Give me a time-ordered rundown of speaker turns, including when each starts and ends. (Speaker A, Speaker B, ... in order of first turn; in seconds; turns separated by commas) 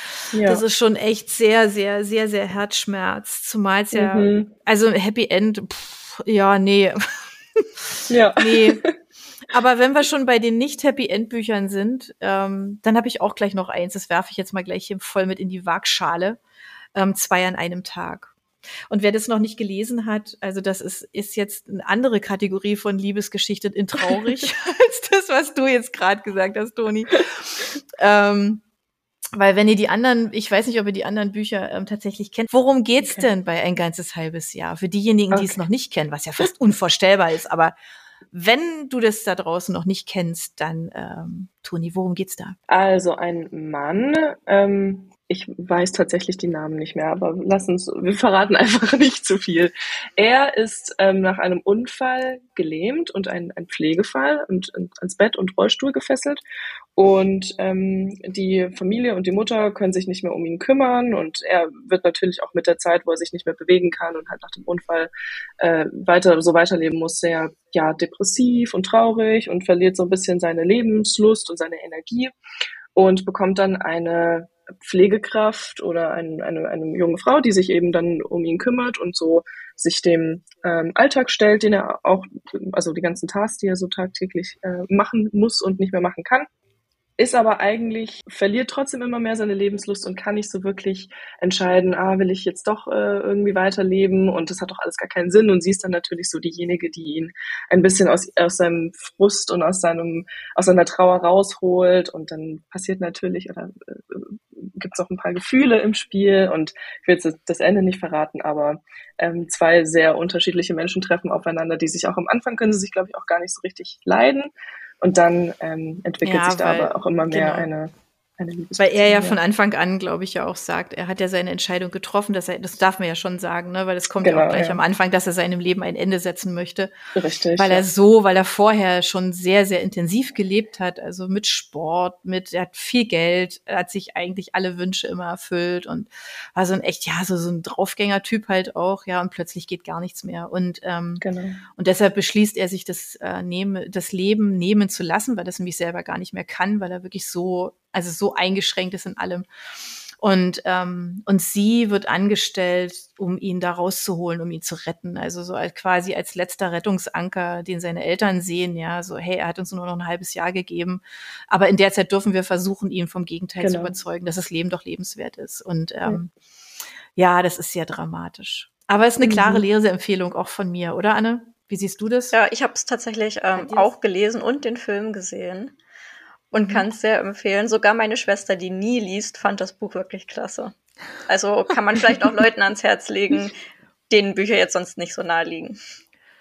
Speaker A: 0.3-0.6, Speaker B: 0.4-8.8, Speaker A: 3.9-4.5, Speaker A: 8.1-8.9, Speaker B: 9.5-16.4, Speaker B: 16.9-18.3, Speaker B: 18.9-28.6, Speaker B: 29.3-37.8, Speaker A: 33.0-33.3, Speaker A: 35.3-35.6, Speaker B: 38.3-42.6, Speaker A: 42.7-56.4, Speaker A: 57.0-65.1, Speaker A: 65.6-72.3, Speaker A: 73.0-86.5, Speaker A: 87.2-114.5, Speaker A: 115.0-119.4, Speaker B: 116.2-117.7, Speaker B: 118.8-126.9, Speaker A: 124.2-124.8, Speaker A: 127.2-127.9, Speaker B: 127.6-141.2, Speaker A: 141.2-141.6, Speaker B: 141.8-149.5, Speaker B: 150.2-166.3, Speaker A: 163.6-164.0, Speaker B: 167.2-172.3, Speaker A: 169.2-169.7, Speaker C: 172.3-175.7, Speaker B: 173.6-173.9, Speaker C: 176.5-180.8, Speaker B: 176.6-176.8, Speaker C: 181.3-183.5, Speaker C: 184.1-185.8